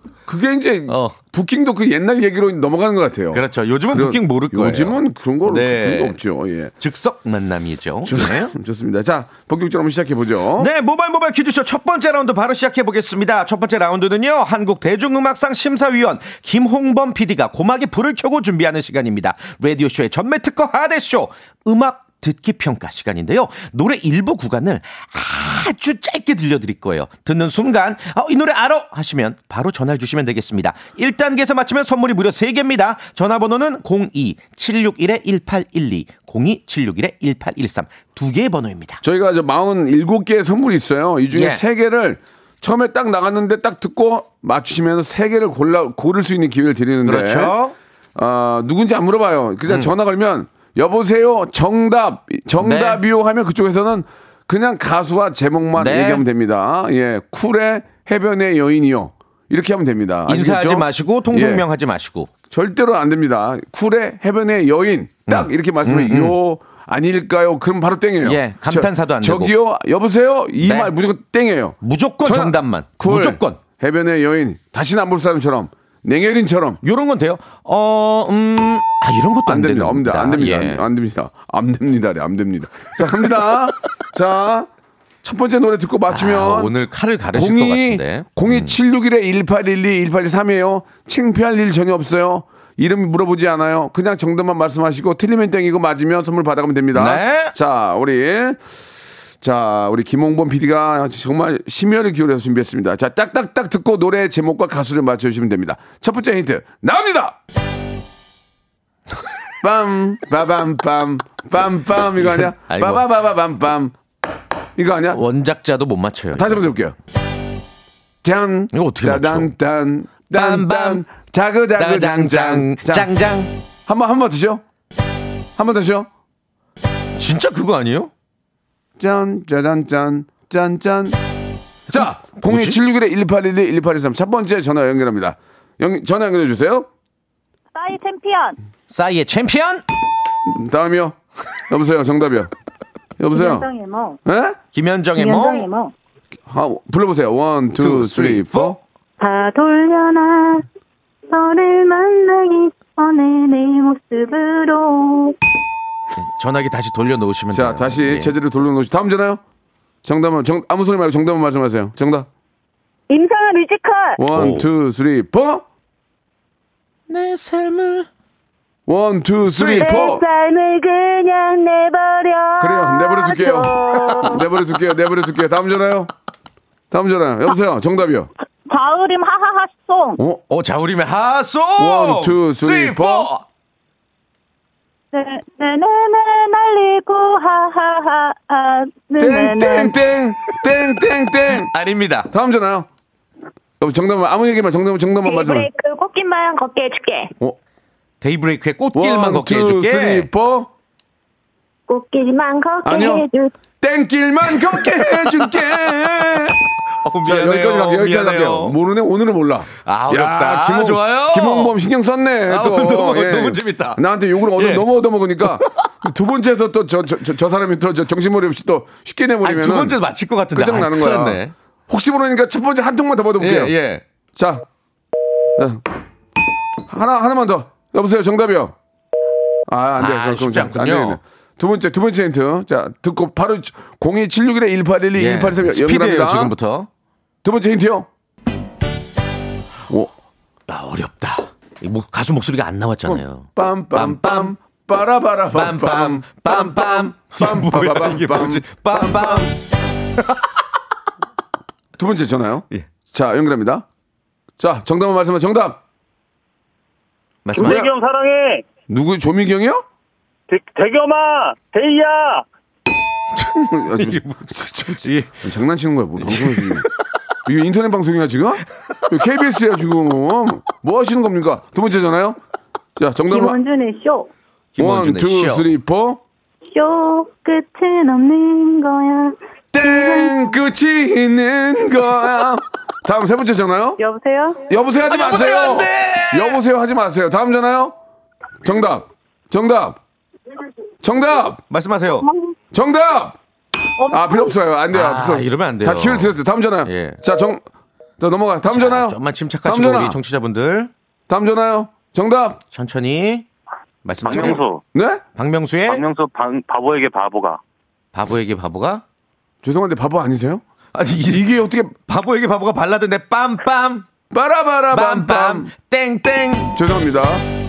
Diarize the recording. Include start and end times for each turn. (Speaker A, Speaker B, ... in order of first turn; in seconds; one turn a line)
Speaker A: 0.3-6.7
Speaker B: 0.9-1.1
Speaker B: 3.3-6.2
Speaker B: 6.8-8.5
Speaker A: 8.0-10.7
Speaker B: 10.6-39.0
Speaker A: 39.0-47.5
Speaker B: 41.3-41.6
Speaker B: 47.0-47.7
Speaker A: 48.1-61.6
Speaker B: 52.6-53.0
Speaker B: 55.8-56.2
Speaker B: 60.3-62.3
Speaker A: 62.5-76.8
Speaker B: 65.3-66.3
Speaker B: 68.2-69.5
Speaker B: 70.6-70.9
Speaker B: 71.8-73.6
Speaker B: 76.8-80.8
Speaker A: 79.5-84.7
Speaker A: 85.2-86.7
Speaker B: 86.1-88.7
Speaker A: 87.3-98.6
Speaker B: 96.9-97.5
Speaker A: 99.4-107.4
Speaker A: 109.6-114.0
Speaker B: 112.2-113.0
Speaker A: 114.8-115.2
Speaker B: 115.1-116.7
Speaker A: 116.3-117.0
Speaker A: 118.2-123.1
Speaker B: 118.7-119.5
Speaker B: 120.3-121.0
Speaker B: 121.8-123.5
Speaker A: 123.9-124.6
Speaker A: 125.5-126.1
Speaker B: 127.2-128.1
Speaker A: 129.0-131.2
Speaker A: 131.9-136.9
Speaker B: 131.9-132.8
Speaker C: 137.7-138.6
Speaker B: 138.9-139.8
Speaker A: 140.4-142.5
Speaker A: 143.2-143.7
Speaker C: 143.3-144.2
Speaker A: 144.2-144.6
Speaker B: 144.7-145.7
Speaker C: 145.2-145.9
Speaker A: 146.5-148.8
Speaker B: 147.8-148.8
Speaker C: 149.2-150.7
Speaker C: 151.3-155.3
Speaker B: 156.2-158.3
Speaker A: 157.5-159.4
Speaker A: 160.0-162.3
Speaker C: 163.1-164.2
Speaker A: 164.2-165.6
Speaker B: 164.3-164.7
Speaker B: 167.1-168.1
Speaker A: 168.9-170.2
Speaker B: 169.4-170.1
Speaker C: 169.8-174.4
Speaker A: 172.6-176.1
Speaker A: 176.9-178.3
Speaker C: 178.7-180.2
Speaker B: 180.5-183.4
Speaker A: 181.8-183.3
Speaker C: 185.1-189.9
Speaker A: 189.2-191.7
Speaker B: 191.7-192.3
Speaker A: 192.3-192.9
Speaker A: 193.8-195.7
Speaker C: 195.2-197.3
Speaker B: 198.2-200.3
Speaker A: 198.9-200.7
Speaker C: 201.9-203.5
Speaker A: 202.8-203.3
Speaker A: 203.8-206.6
Speaker B: 204.8-206.3
Speaker B: 206.9-208.8
Speaker A: 207.2-220.0
Speaker B: 209.8-211.8
Speaker B: 212.5-214.9
Speaker B: 215.4-215.8
Speaker B: 219.4-221.5
Speaker A: 220.5-223.7
Speaker B: 223.4-224.0
Speaker A: 224.3-224.6
Speaker A: 225.6-225.8
Speaker A: 226.9-228.7
Speaker A: 229.7-236.5
Speaker B: 230.0-231.2
Speaker B: 235.2-236.9
Speaker A: 237.4-238.1
Speaker B: 240.7-244.5
Speaker A: 243.0-249.5
Speaker B: 245.5-249.5
Speaker B: 250.2-250.5
Speaker A: 252.0-253.8
Speaker A: 254.6-255.8
Speaker B: 257.4-257.9
Speaker A: 257.6-257.9
Speaker A: 258.9-259.8
Speaker B: 263.4-265.4
Speaker A: 263.4-266.9
Speaker B: 266.2-266.8
Speaker A: 267.4-272.4
Speaker A: 273.0-273.6
Speaker C: 273.3-274.3
Speaker B: 274.8-275.7
Speaker A: 274.8-276.2
Speaker C: 276.7-280.5
Speaker A: 279.7-284.0
Speaker C: 284.0-284.7
Speaker A: 284.7-287.9
Speaker B: 285.0-286.6
Speaker A: 288.6-290.0
Speaker A: 291.0-291.6
Speaker B: 291.7-292.3
Speaker A: 292.7-293.4
Speaker C: 294.0-294.5
Speaker A: 294.1-297.6
Speaker B: 294.9-297.2
Speaker A: 298.2-300.2
Speaker B: 298.7-300.9
Speaker A: 301.3-302.6
Speaker B: 302.7-303.5
Speaker B: 304.0-304.6
Speaker D: 304.2-304.8
Speaker A: 304.2-305.2
Speaker B: 305.4-306.0
Speaker D: 305.9-307.6
Speaker B: 308.1-309.0
Speaker A: 309.6-310.6
Speaker B: 310.9-311.5
Speaker A: 311.2-311.9
Speaker B: 312.1-314.1
Speaker A: 314.3-315.7
Speaker B: 314.9-316.7
Speaker A: 316.7-317.4